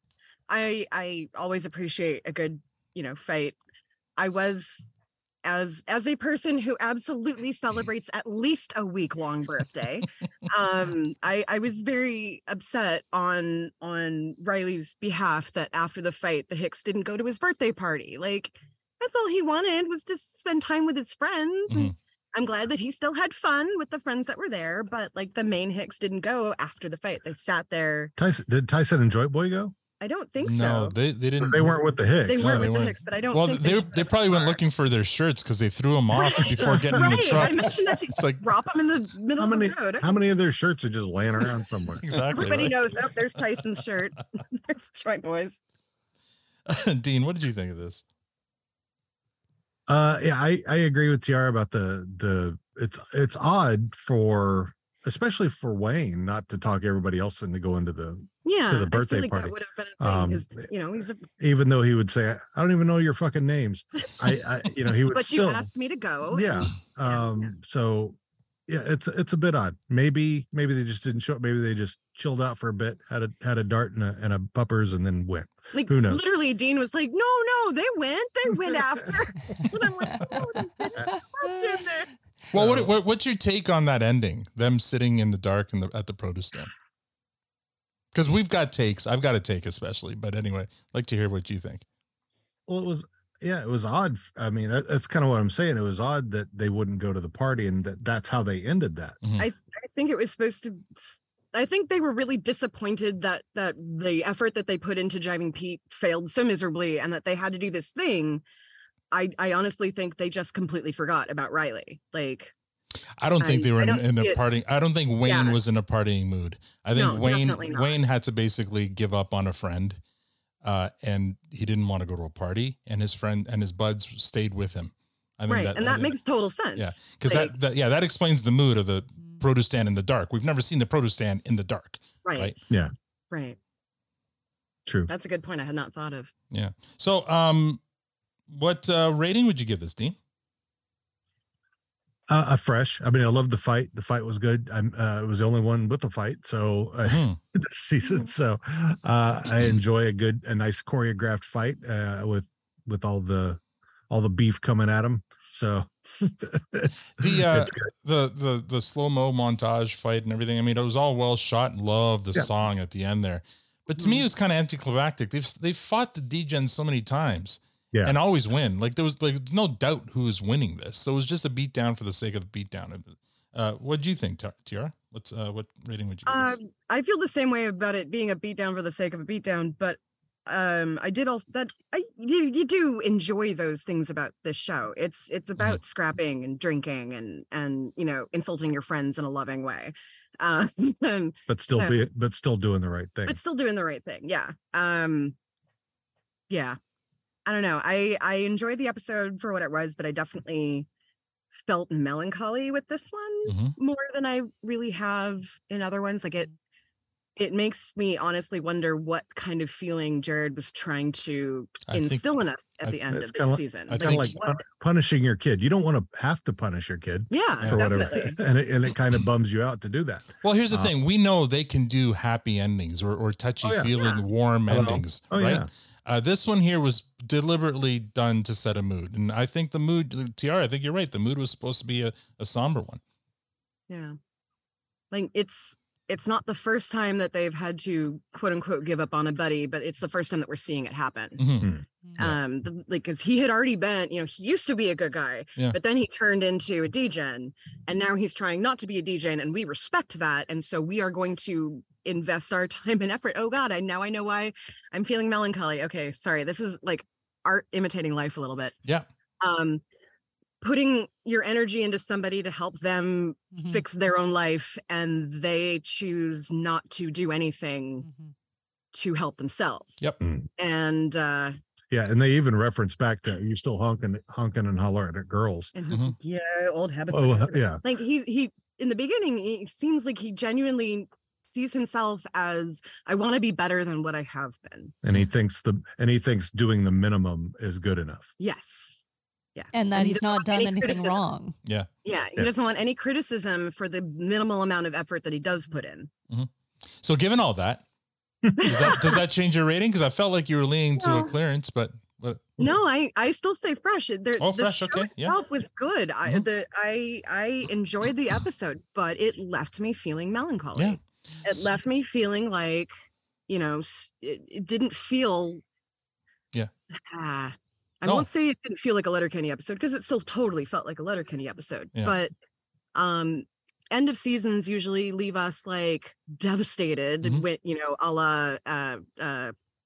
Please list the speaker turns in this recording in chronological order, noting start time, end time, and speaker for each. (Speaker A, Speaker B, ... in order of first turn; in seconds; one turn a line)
Speaker A: 0.5-3.5
Speaker A: 4.2-4.9
Speaker A: 5.5-28.1
Speaker B: 21.7-21.9
Speaker C: 28.2-29.8
Speaker A: 30.0-31.0
Speaker B: 30.4-38.4
Speaker C: 31.4-32.8
Speaker A: 32.2-34.6
Speaker A: 36.1-40.2
Speaker C: 36.6-37.5
Speaker C: 39.4-42.0
Speaker B: 42.0-42.8
Speaker A: 42.3-45.6
Speaker B: 46.7-48.0
Speaker C: 49.9-60.7
Speaker A: 58.5-61.2
Speaker C: 61.4-65.7
Speaker A: 65.1-67.5
Speaker C: 66.3-68.2
Speaker C: 68.7-76.2
Speaker A: 75.7-82.1
Speaker B: 82.5-86.7
Speaker C: 82.5-83.0
Speaker B: 88.1-91.8
Speaker C: 92.7-99.2
Speaker A: 99.4-108.4
Speaker A: 109.1-112.5
Speaker B: 113.2-120.0
Speaker A: 113.4-114.4
Speaker A: 115.2-115.6
Speaker A: 116.9-118.0
Speaker B: 120.6-126.2
Speaker A: 125.5-127.5
Speaker B: 126.8-132.6
Speaker A: 132.2-132.7
Speaker A: 133.3-133.6
Speaker A: 135.1-136.3
Speaker B: 136.5-137.8
Speaker B: 138.5-140.2
Speaker C: 142.3-157.8
Speaker B: 147.1-147.4
Speaker B: 157.2-176.6
Speaker A: 164.0-164.2
Speaker A: 176.3-192.1
Speaker C: 191.5-193.4
Speaker A: 193.2-195.3
Speaker A: 196.5-196.8
Speaker A: 197.5-200.9
Speaker A: 201.7-206.5
Speaker B: 203.5-203.8
Speaker A: 207.4-214.6
Speaker B: 211.9-212.3
Speaker C: 213.1-220.9
Speaker B: 213.9-214.4
Speaker A: 217.3-218.4
Speaker B: 220.4-233.0
Speaker C: 223.6-223.9
Speaker C: 224.7-225.7
Speaker A: 233.9-234.2
Speaker A: 235.1-241.4
Speaker B: 241.4-242.4
Speaker C: 241.6-242.4
Speaker A: 242.2-258.8
Speaker A: 259.4-259.8
Speaker A: 260.6-268.1
Speaker D: 263.6-263.8
Speaker D: 268.0-268.3
Speaker A: 268.9-270.0
Speaker C: 270.2-270.5
Speaker A: 270.6-271.6
Speaker C: 271.9-275.7
Speaker A: 275.8-284.9
Speaker B: 275.9-276.1
Speaker C: 277.1-277.8
Speaker C: 285.0-288.3
Speaker A: 288.4-291.2
Speaker D: 289.7-291.6
Speaker A: 292.1-296.1
Speaker B: 297.0-297.8
Speaker B: 298.6-302.6
Speaker A: 298.6-299.0
Speaker A: 301.0-301.3
Speaker A: 302.6-312.9
Speaker B: 304.4-305.4
Speaker B: 310.8-311.8
Speaker A: 313.5-315.6
Speaker A: 317.1-322.3
Speaker A: 322.9-329.5